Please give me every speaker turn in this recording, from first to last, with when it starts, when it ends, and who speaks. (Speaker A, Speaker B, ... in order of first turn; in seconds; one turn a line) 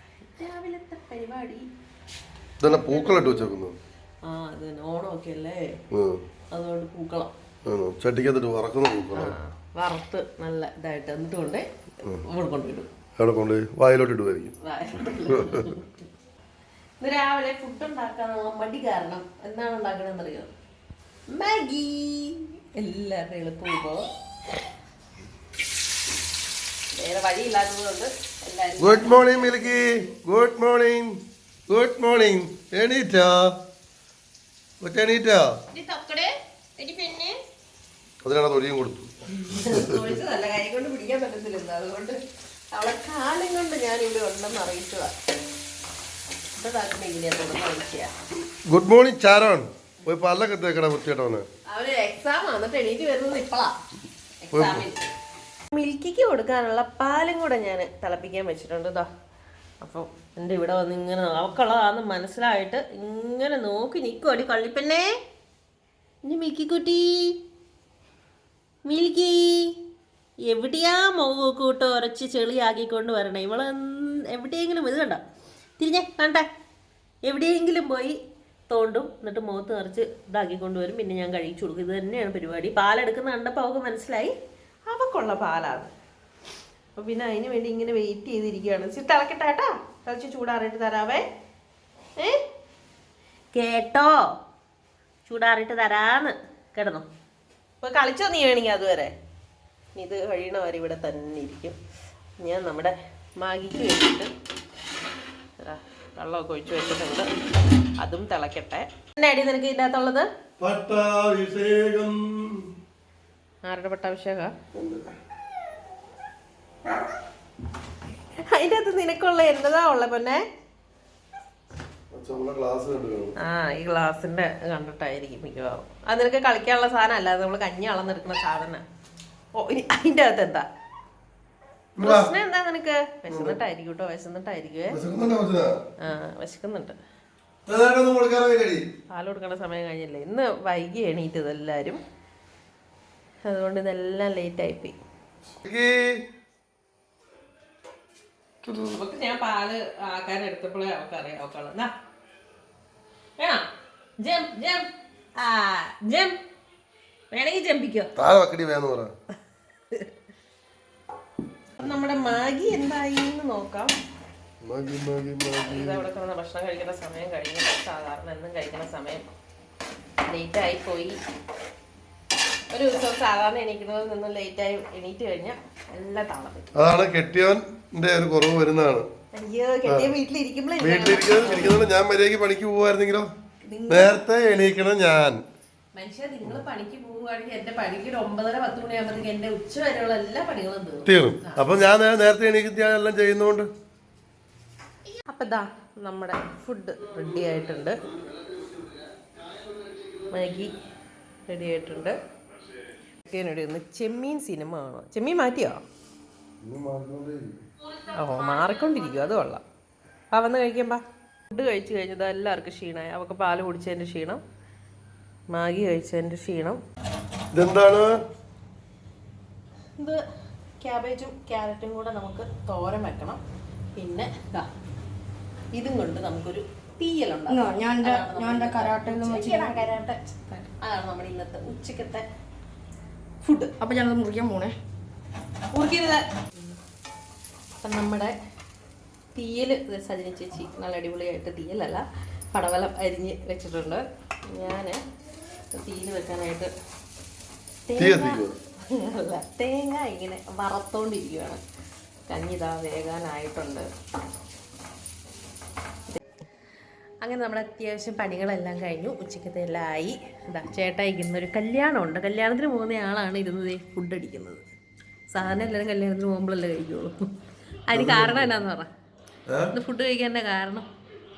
Speaker A: 0.3-1.6
Speaker B: 2.6-3.8
Speaker A: 2.7-3.5
Speaker A: 4.2-5.6
Speaker B: 5.9-6.2
Speaker A: 6.5-7.3
Speaker B: 7.7-9.3
Speaker A: 9.1-11.7
Speaker A: 12.2-12.9
Speaker B: 13.2-14.5
Speaker A: 14.6-15.9
Speaker B: 15.2-15.7
Speaker A: 17.0-20.5
Speaker A: 21.3-24.1
Speaker A: 26.9-29.8
Speaker B: 28.8-31.1
Speaker B: 31.7-33.5
Speaker B: 34.8-35.5
Speaker A: 35.7-37.4
Speaker B: 38.2-40.1
Speaker A: 39.3-42.2
Speaker A: 42.7-45.1
Speaker A: 46.5-48.1
Speaker B: 48.7-51.5
Speaker A: 51.7-53.8
Speaker A: 54.4-55.0
Speaker B: 54.5-54.9
Speaker A: 55.7-59.1
Speaker A: 59.8-65.1
Speaker A: 66.2-67.4
Speaker A: 68.8-69.7
Speaker A: 70.5-75.2
Speaker A: 75.8-76.4
Speaker A: 77.2-78.2
Speaker A: 78.7-84.3
Speaker A: 84.8-85.9
Speaker A: 87.0-91.2
Speaker A: 93.5-94.2
Speaker A: 95.2-97.0
Speaker A: 97.8-99.1
Speaker A: 100.0-101.8
Speaker A: 102.4-104.3
Speaker A: 105.6-107.3
Speaker A: 108.0-110.3
Speaker B: 110.6-112.6
Speaker A: 113.6-114.5
Speaker B: 114.7-115.1
Speaker A: 118.5-120.4
Speaker B: 122.1-123.3
Speaker A: 123.4-128.8
Speaker A: 129.5-130.7
Speaker B: 131.9-132.3
Speaker A: 132.0-135.0
Speaker B: 133.3-133.6
Speaker B: 134.9-135.8
Speaker A: 136.0-137.0
Speaker B: 137.7-138.8
Speaker A: 139.1-142.0
Speaker A: 143.4-144.9
Speaker B: 145.6-146.1
Speaker A: 148.6-151.9
Speaker A: 153.4-153.7
Speaker A: 154.2-156.3
Speaker A: 157.3-158.1
Speaker B: 158.2-159.1
Speaker A: 161.8-163.9
Speaker B: 164.6-166.0
Speaker A: 165.6-169.2
Speaker A: 170.3-171.2
Speaker A: 172.7-176.7
Speaker B: 176.8-179.1
Speaker A: 179.3-181.8
Speaker B: 179.8-180.1
Speaker B: 180.8-183.3
Speaker A: 183.6-184.2
Speaker B: 183.9-185.4
Speaker A: 185.9-191.7
Speaker B: 191.0-193.7
Speaker A: 195.3-198.0
Speaker A: 200.3-200.7
Speaker A: 201.5-202.2
Speaker A: 203.2-205.8
Speaker B: 206.6-207.6
Speaker A: 208.1-209.6
Speaker A: 210.3-214.4
Speaker A: 215.5-216.8
Speaker B: 217.5-218.1
Speaker A: 220.8-223.4
Speaker A: 224.0-224.7
Speaker A: 225.7-232.2
Speaker C: 227.5-230.0
Speaker A: 233.4-233.7
Speaker C: 233.8-234.7
Speaker A: 235.7-236.2
Speaker A: 237.8-238.3
Speaker A: 239.3-245.0
Speaker A: 245.7-246.7
Speaker A: 247.9-251.6
Speaker B: 247.9-248.5
Speaker A: 252.3-253.9
Speaker A: 257.2-264.6
Speaker A: 265.3-267.1
Speaker A: 267.9-268.9
Speaker B: 267.9-268.5
Speaker B: 269.5-269.7
Speaker A: 269.7-270.9